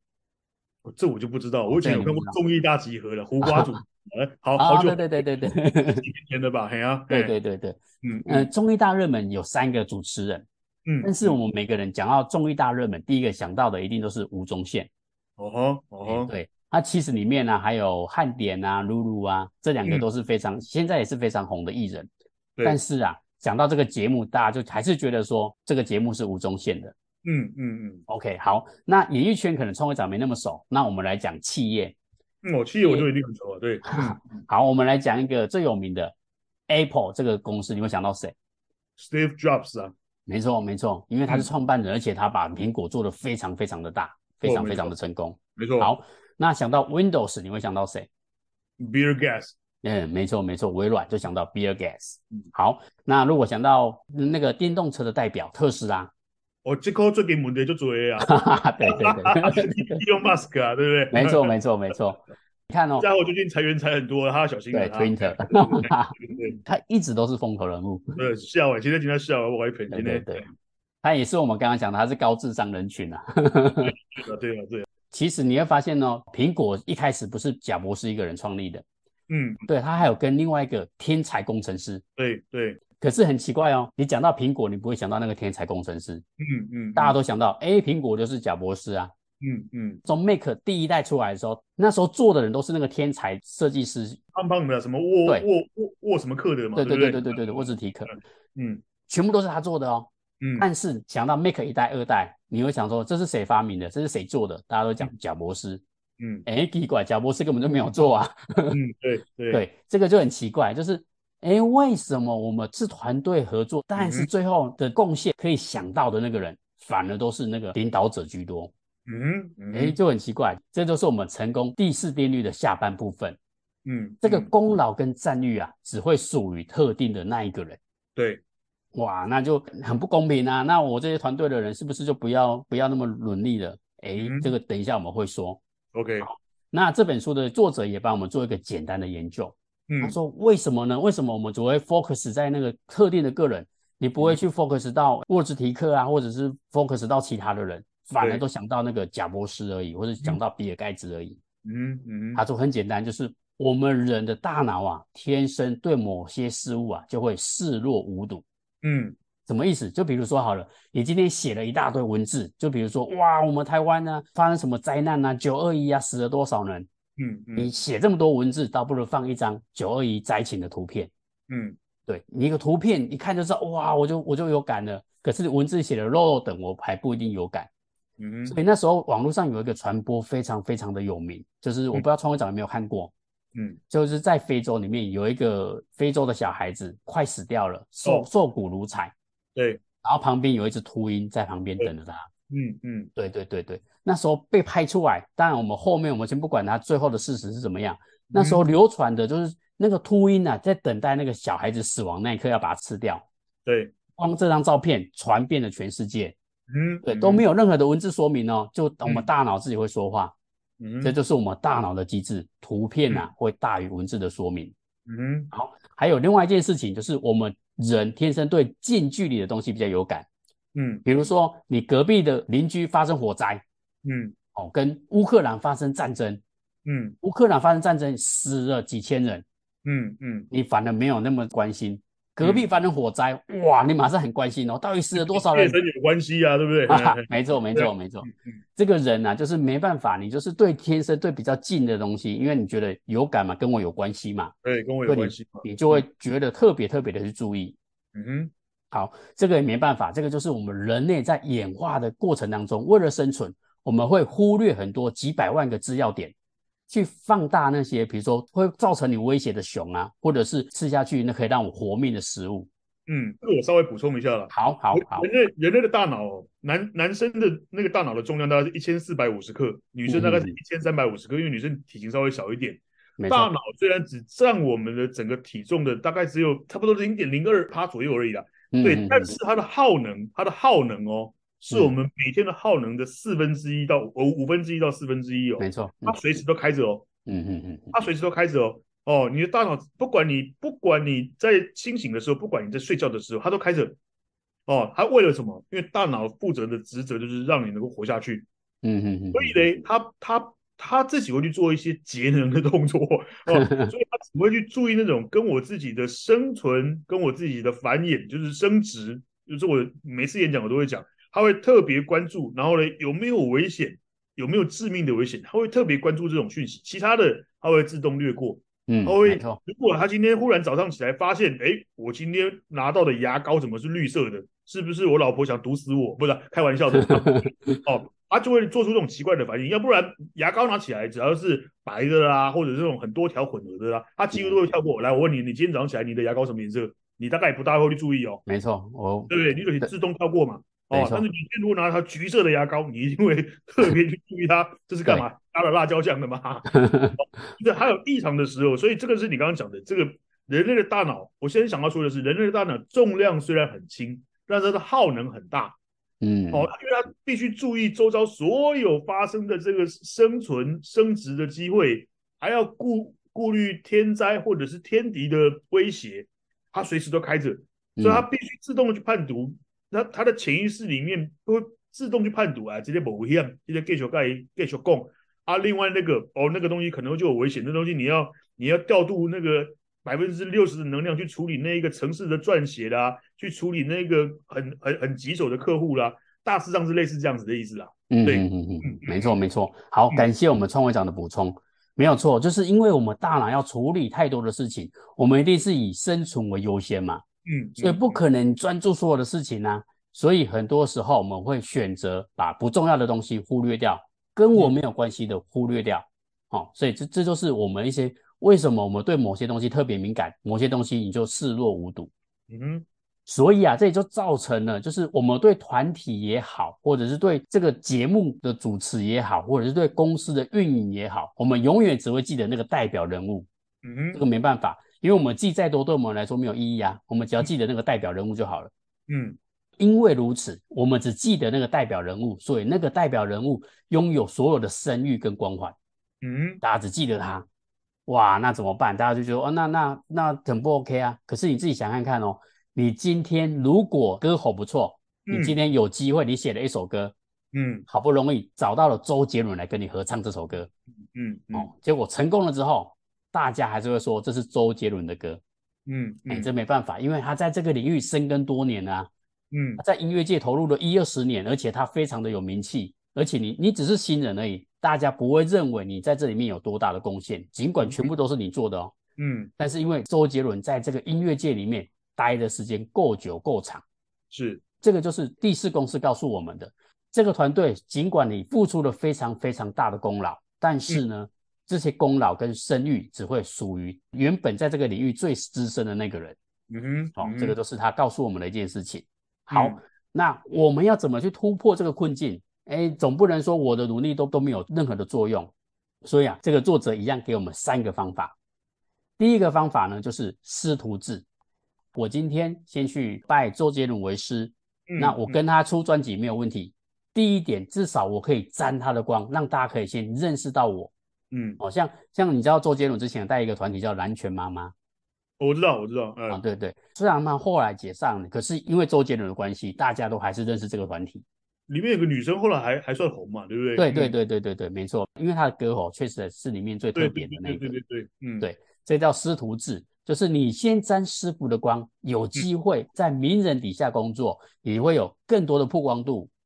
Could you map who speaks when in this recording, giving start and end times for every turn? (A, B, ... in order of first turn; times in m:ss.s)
0:00.8-0:05.2 A
0:01.7-0:02.4 B
0:04.6-0:06.0 B
0:06.0-0:07.3 A
0:07.1-0:10.5 B
0:08.0-0:08.5 A
0:10.9-0:11.4 A
0:11.0-0:14.9 B
0:15.4-0:16.3 A
0:16.0-0:22.1 B
0:22.6-0:27.0 B
0:27.2-0:28.0 A
0:28.1-0:32.0 B
0:32.4-0:34.4 A
0:33.9-0:36.2 B
0:36.7-0:38.3 B
0:39.0-0:39.9 A
0:40.3-0:48.1 B
0:44.4-0:44.9 A
0:45.6-0:45.9 A
0:48.8-0:49.5 A
0:49.8-0:56.1 B
0:56.6-1:01.6 A
0:58.2-1:00.0 B
1:01.1-1:03.1 B
1:03.0-1:06.6 A
1:04.7-1:08.2 B
1:08.2-1:10.5 A
1:09.9-1:10.4 B
1:11.0-1:14.0 B
1:13.8-1:14.9 A
1:15.1-1:18.8 B
1:19.3-1:19.6 A
1:19.7-1:22.0 B
1:22.2-1:22.8 A
1:23.0-1:26.2 B
1:26.4-1:27.2 A
1:27.0-1:29.1 B
1:29.4-1:30.0 A
1:30.1-1:34.2 B
1:34.3-1:38.8 A
1:36.8-1:38.1 B
1:39.1-1:45.8 B
1:40.4-1:40.7 A
1:46.2-1:46.5 A
1:46.5-1:48.8 B
1:48.7-1:49.6 A
1:49.5-1:58.7 B
1:54.0-1:54.3 A
1:59.1-2:00.0 A
1:59.7-2:03.4 B
2:03.9-2:04.5 A
2:04.2-2:07.8 B
2:08.2-2:08.4 A
2:08.9-2:15.6 B
2:14.2-2:14.5 A
2:15.9-2:16.3 A
2:16.2-2:31.4 B
2:19.9-2:20.2 A
2:31.6-2:32.4 A
2:32.4-2:38.4 B
2:38.8-2:39.2 A
2:39.5-2:46.9 B
2:47.2-2:47.7 A
2:47.6-2:51.1 B
2:51.5-2:51.8 A
2:52.1-2:57.7 B
2:58.2-2:58.6 A
2:58.5-3:03.1 B
3:03.9-3:09.1 B
3:08.0-3:08.3 A
3:09.6-3:09.8 A
3:10.0-3:12.3 B
3:12.5-3:13.1 A
3:13.2-3:23.2 B
3:18.3-3:18.6 A
3:23.7-3:23.9 A
3:24.2-3:26.4 B
3:26.7-3:27.4 A
3:27.0-3:30.4 B
3:30.8-3:31.1 A
3:31.0-3:34.7 B
3:35.1-3:35.5 A
3:35.5-3:40.3 B
3:40.8-3:41.0 A
3:41.0-3:43.6 B
3:44.0-3:44.4 A
3:44.6-3:46.4 B
3:46.8-3:47.2 A
3:47.2-3:49.4 B
3:49.8-3:50.5 A
3:50.5-3:55.8 B
3:52.4-3:52.7 A
3:55.2-3:58.6 A
3:56.9-4:04.5 B
4:04.6-4:06.1 A
4:05.1-4:07.8 B
4:08.2-4:08.5 A
4:08.9-4:16.3 B
4:16.9-4:22.7 B
4:23.1-4:47.1 A
4:24.5-4:25.3 B
4:30.1-4:30.6 B
4:33.2-4:33.5 B
4:38.7-4:39.4 B
4:45.6-4:46.2 B
4:47.3-4:48.0 B
4:47.9-4:54.0 A
4:54.7-4:58.5 A
4:58.8-4:59.6 B
4:59.3-5:38.4 A
5:03.5-5:03.9 B
5:18.9-5:19.6 B
5:27.0-5:27.8 B
5:38.5-5:39.9 B
5:39.3-5:55.8 A
5:40.9-5:41.2 B
5:46.7-5:47.2 B
5:56.2-5:56.7 B
5:56.5-6:29.4 A
6:08.0-6:08.3 B
6:28.1-6:37.2 B
6:37.5-6:38.2 A
6:37.8-6:52.1 B
6:52.5-6:52.9 A
6:53.3-7:03.5 B
7:03.8-7:04.2 A
7:04.1-7:08.7 B
7:09.1-7:09.4 A
7:09.8-7:15.8 B
7:16.2-7:16.6 A
7:16.6-7:17.5 B
7:18.1-7:27.2 B
7:25.3-7:25.6 A
7:27.5-7:27.9 A
7:27.9-7:30.7 B
7:31.1-7:31.7 A
7:31.5-7:35.4 B
7:35.9-7:36.5 A
7:36.3-7:39.1 B
7:39.5-7:39.8 A
7:39.8-7:48.9 B
7:47.8-7:48.1 A
7:49.2-7:49.5 A
7:49.6-7:53.8 B
7:54.3-7:54.6 A
7:54.8-8:06.4 B
8:06.7-8:07.6 A
8:07.2-8:15.5 B
8:09.5-8:09.8 A
8:16.0-8:18.4 B
8:19.2-8:21.2 B
8:22.0-8:30.9 B
8:24.9-8:25.4 A
8:31.3-8:31.6 A
8:31.6-8:34.7 B
8:35.4-8:36.4 A
8:36.3-8:41.2 B
8:41.7-8:44.1 A
8:43.8-8:47.7 B
8:47.0-8:48.5 A
8:48.4-8:56.3 B